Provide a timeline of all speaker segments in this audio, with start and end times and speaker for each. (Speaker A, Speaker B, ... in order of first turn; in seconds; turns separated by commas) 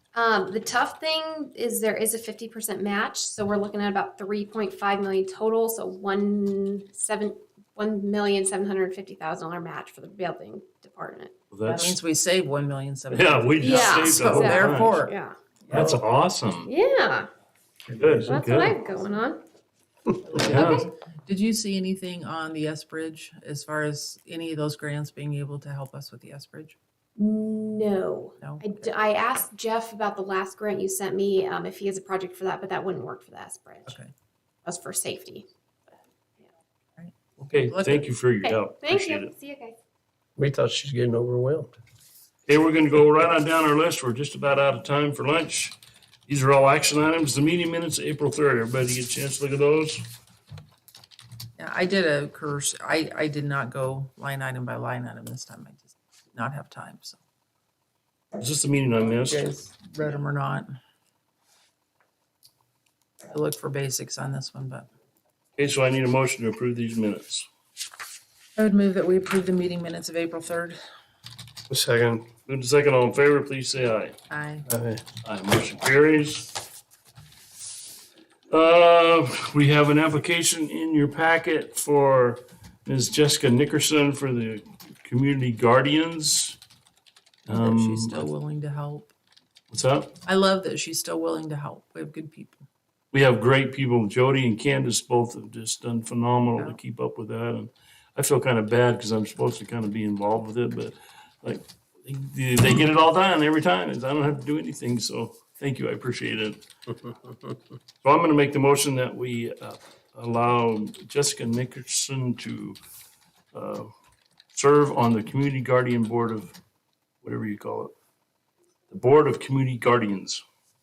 Speaker A: 0.1-11.3, Speaker B: 11.5-12.0, Speaker C: 11.6-15.1, Speaker B: 13.1-15.0, Speaker A: 13.6-15.4, Speaker B: 15.7-16.7, Speaker A: 16.6-17.3, Speaker D: 17.9-18.3, Speaker B: 18.0-18.8, Speaker A: 18.2-19.4, Speaker C: 20.3-26.8, Speaker B: 20.3-20.9, Speaker A: 20.4-20.7, Speaker A: 27.2-33.9, Speaker C: 28.4-28.8, Speaker A: 34.6-35.5, Speaker C: 37.0-38.1, Speaker B: 37.5-39.3, Speaker A: 38.4-39.8, Speaker D: 40.4-41.7, Speaker B: 42.5-45.8, Speaker B: 46.3-50.1, Speaker C: 51.6-57.2, Speaker B: 58.4-59.5, Speaker C: 59.2-60.8, Speaker C: 63.3-64.9, Speaker B: 65.6-67.5, Speaker C: 68.6-70.8, Speaker D: 71.7-72.3, Speaker B: 72.5-74.2, Speaker C: 74.3-74.6, Speaker D: 74.7-75.0, Speaker B: 75.2-76.6, Speaker B: 78.5-86.6, Speaker B: 87.5-88.2, Speaker C: 87.5-89.1, Speaker B: 89.7-90.1, Speaker C: 90.2-92.6, Speaker B: 93.1-106.6, Speaker B: 108.0-112.8, Speaker B: 113.5-113.9, Speaker B: 114.5-116.5, Speaker B: 117.2-117.9, Speaker B: 118.9-120.4